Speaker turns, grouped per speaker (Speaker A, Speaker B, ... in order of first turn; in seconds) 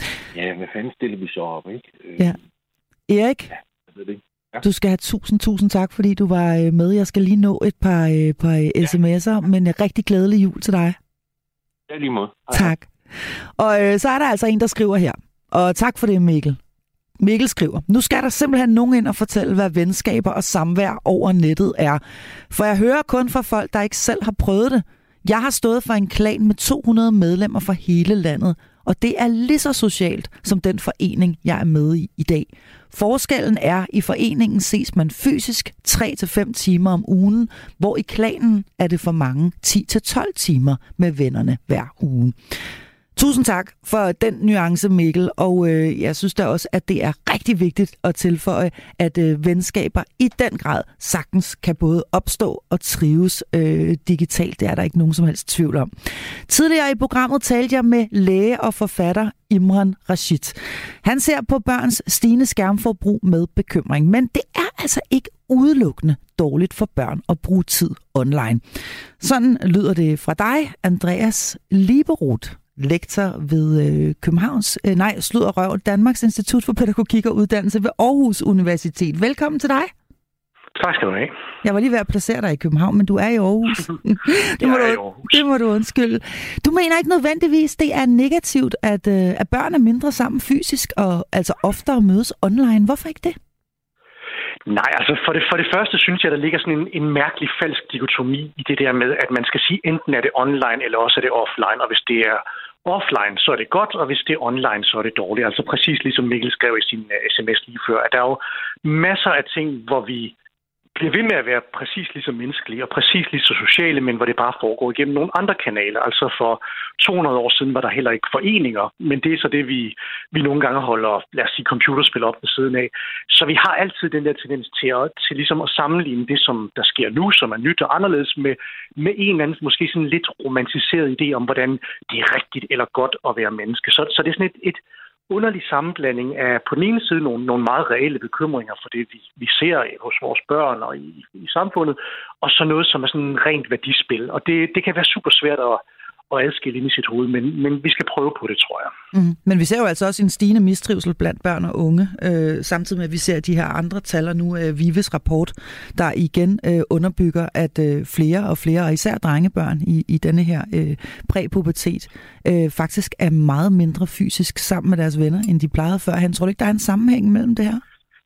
Speaker A: 0.3-2.4, 3.9-4.6, 11.9-12.7
Speaker B: 3.1-3.5, 4.6-11.0, 12.5-16.6, 17.2-42.5, 43.1-79.9, 81.6-93.3, 149.1-167.8
Speaker C: 80.8-81.3, 84.6-85.4, 94.7-110.3, 111.0-148.9